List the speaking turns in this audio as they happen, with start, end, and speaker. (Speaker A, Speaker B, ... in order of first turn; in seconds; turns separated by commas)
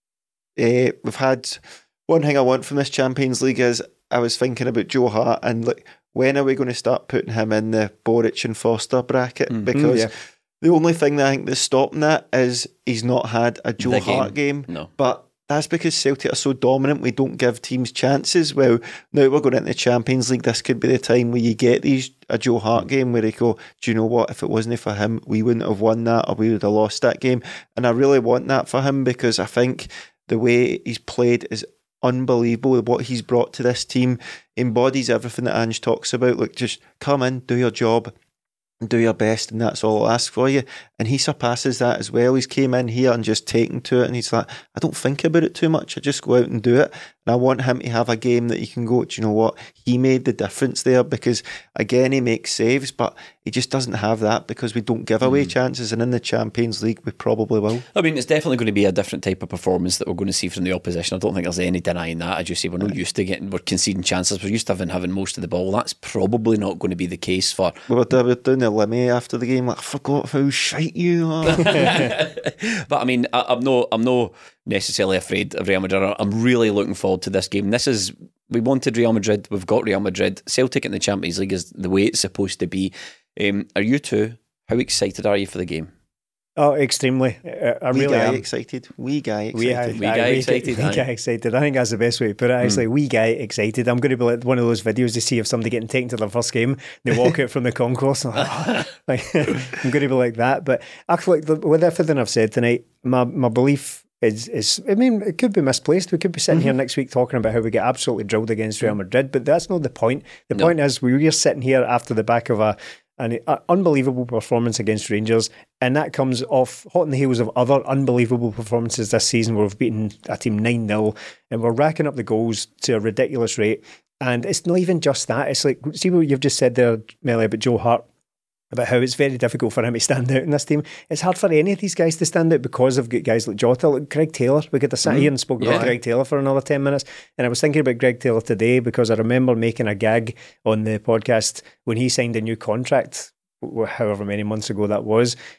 Speaker A: 0.6-38.1, Speaker B: 9.7-10.1, Speaker C: 13.8-14.9, Speaker A: 38.8-57.8, Speaker C: 57.9-67.8, Speaker A: 67.9-72.1, Speaker C: 71.5-85.9, Speaker B: 86.6-88.4, Speaker A: 87.9-90.0, Speaker B: 89.5-128.0, Speaker C: 89.9-91.0, Speaker B: 128.7-145.3, Speaker C: 135.0-135.9